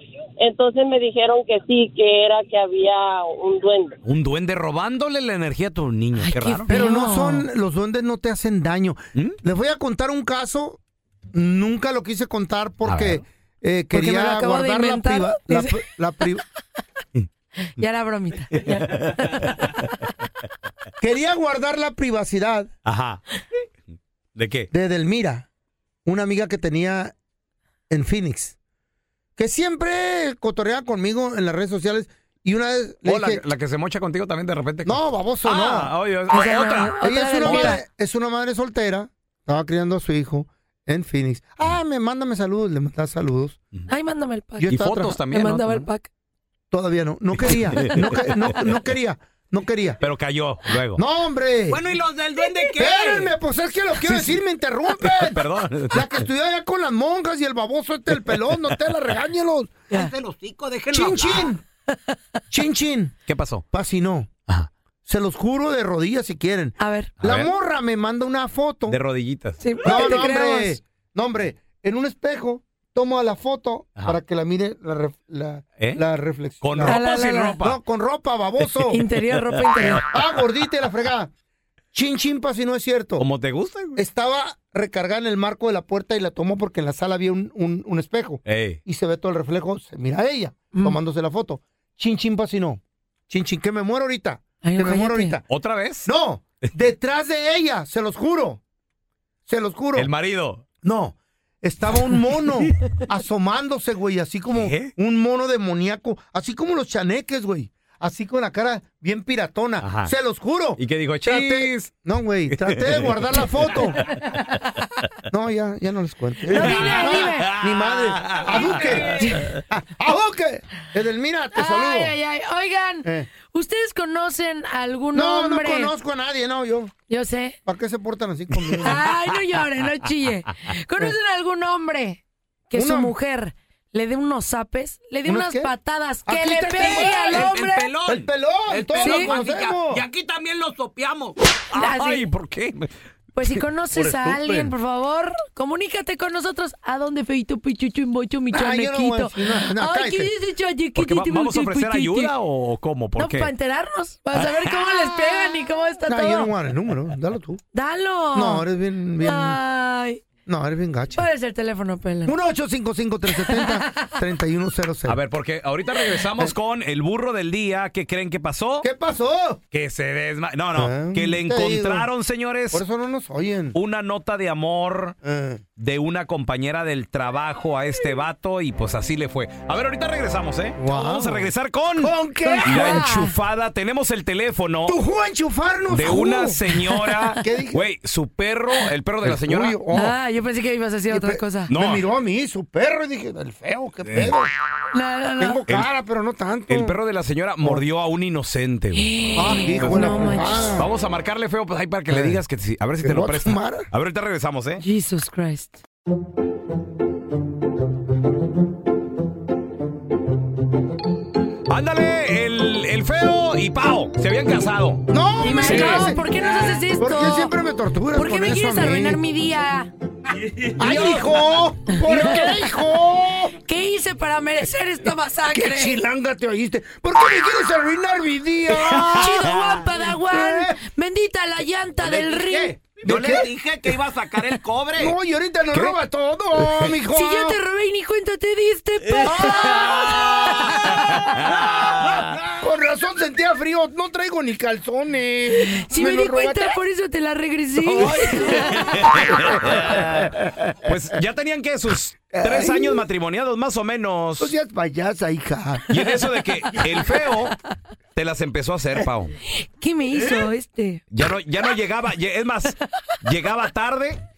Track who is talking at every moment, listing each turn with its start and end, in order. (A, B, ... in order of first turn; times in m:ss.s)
0:00.4-0:04.0 A
0:04.0-0:06.8 B
0:06.2-0:07.4 C
0:06.7-0:10.8 D
0:11.3-0:16.4 D
0:12.8-0:13.2 B
0:13.9-0:15.8 C
0:17.8-0:19.6 C
0:18.9-0:19.4 B
0:21.0-0:22.7 D
0:22.8-0:23.2 B
0:24.4-0:24.7 B
0:24.7-0:25.5 D
0:26.0-0:27.1 D
0:27.9-0:28.6 D
0:29.4-0:33.4 D
0:33.0-0:37.8 B
0:34.8-0:35.9 D
0:36.3-0:37.8 C
0:37.0-0:43.6 D
0:43.9-0:46.1 C
0:44.6-0:45.2 D
0:44.7-0:45.9 B
0:46.7-0:50.0 D
0:47.4-0:48.3 B
0:50.0-0:51.0 B
0:51.0-0:51.8 D
0:51.7-0:53.3 E
0:52.8-0:59.8 D
0:54.0-0:54.4 B
0:55.0-0:56.2 B
0:59.9-1:01.5 E
1:00.9-1:01.6 D
1:02.5-1:03.2 D
1:03.3-1:03.6 B
1:03.7-1:04.3 D
1:05.0-1:09.0 D
1:06.8-1:07.1 C
1:07.2-1:07.5 B
1:08.9-1:10.1 B
1:09.6-1:10.8 C
1:09.8-1:17.0 D
1:16.6-1:17.8 B
1:16.8-1:17.6 C
1:17.6-1:19.0 D
1:18.9-1:20.0 C
1:20.0-1:21.3 D
1:21.9-1:23.2 D
1:23.2-1:24.0 B
1:24.0-1:35.4 D
1:28.4-1:28.8 B
1:34.6-1:35.4 C
1:35.5-1:36.1 B
1:36.0-1:38.6 D
1:39.5-1:40.1 D
1:39.9-1:40.6 B
1:40.8-1:54.2 D
1:44.5-1:44.9 B
1:49.8-1:50.1 B
1:50.8-1:51.9 B
1:52.5-1:54.4 B
1:55.3-2:02.1 D
1:56.5-1:57.5 C
1:56.5-1:59.6 B
1:59.2-1:59.5 C
2:01.5-2:05.9 C
2:05.1-2:06.9 D
2:07.1-2:07.6 C
2:07.6-2:09.0 D
2:08.8-2:17.9 C
2:12.7-2:13.1 D
2:15.2-2:15.7 D
2:16.2-2:17.5 D
2:17.3-2:18.1 B
2:17.6-2:21.4 E
2:18.0-2:20.0 D
2:19.0-2:19.3 C
2:21.7-2:22.9 B
2:21.7-2:22.2 C
2:23.3-2:32.3 C
2:24.0-2:24.7 D
2:28.5-2:30.3 D
2:31.0-2:33.5 B
2:33.2-2:36.5 C
2:34.7-2:35.0 B
2:36.1-2:37.6 D
2:37.7-2:38.6 C
2:38.3-2:39.6 D
2:39.2-2:40.2 C
2:40.4-2:41.3 D
2:41.2-2:42.3 C
2:42.2-2:45.2 D
2:43.3-2:44.1 C
2:45.1-2:48.9 B
2:48.8-2:49.6 D
2:49.7-2:52.8 B
2:50.8-2:52.1 D
2:52.7-2:53.8 D
2:53.7-2:55.2 B
2:55.2-2:55.6 D
2:55.8-3:02.1 B
3:00.8-3:03.3 D
3:02.4-3:03.3 C
3:02.6-3:05.0 B
3:04.9-3:07.8 D
3:05.9-3:09.8 B
3:09.2-3:10.2 D
3:09.9-3:11.7 C
3:11.1-3:14.5 D
3:11.7-3:12.0 B
3:14.0-3:14.3 B
3:14.9-3:15.6 C
3:15.4-3:16.9 D
3:16.7-3:19.0 B
3:19.0-3:20.7 C
3:19.4-3:20.9 D
3:20.8-3:24.8 B
3:22.1-3:22.4 D
3:23.0-3:23.9 D
3:24.8-3:25.8 C
3:31.7-3:36.1 B
3:35.1-3:39.2 D
3:35.4-3:37.5 C
3:38.1-3:39.9 C
3:40.6-3:41.2 B
3:40.8-3:43.6 D
3:41.9-3:42.7 C
3:43.6-3:46.0 C
3:45.5-3:50.8 D
3:49.1-3:52.7 C
3:52.0-3:55.2 E
3:52.3-3:53.5 D
3:55.0-3:57.6 D
3:56.6-3:56.9 B
3:57.1-4:01.0 C
3:59.2-4:00.5 D
3:59.6-4:02.2 B
4:02.4-4:06.8 D
4:05.7-4:09.0 C
4:07.8-4:14.5 B
4:08.0-4:10.6 D
4:12.3-4:13.0 D
4:14.4-4:17.3 D
4:15.9-4:17.5 B
4:18.1-4:19.3 B
4:19.5-4:21.0 C
4:21.1-4:24.2 B